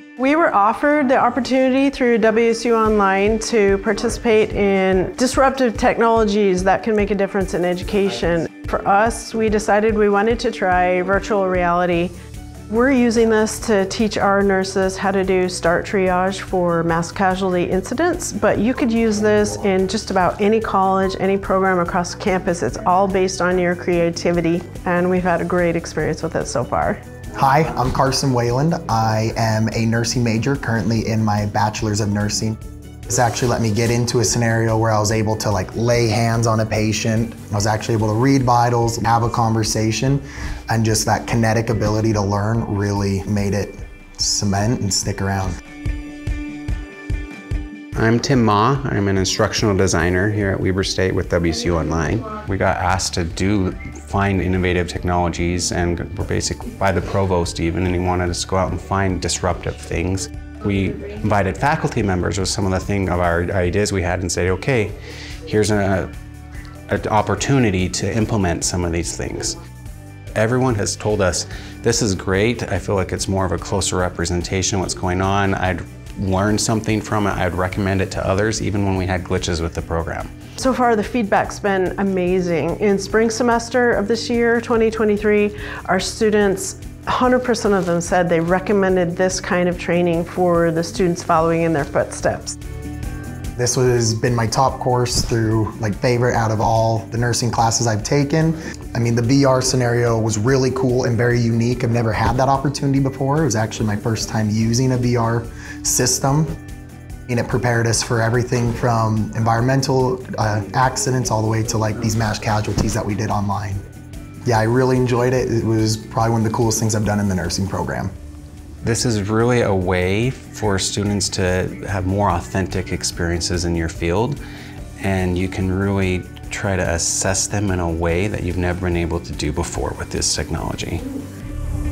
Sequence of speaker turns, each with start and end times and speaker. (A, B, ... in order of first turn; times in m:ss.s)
0:00.2-0:12.1 A
0:12.7-0:27.0 A
0:27.4-0:45.6 B
0:48.0-1:05.0 C
1:05.5-1:06.1 C
1:06.9-1:09.6 C
1:10.4-1:20.3 C
1:20.6-1:32.6 A
1:33.6-1:46.5 B
1:47.3-1:53.8 B
1:54.5-1:58.1 B
1:58.8-2:04.4 C
2:05.0-2:11.0 C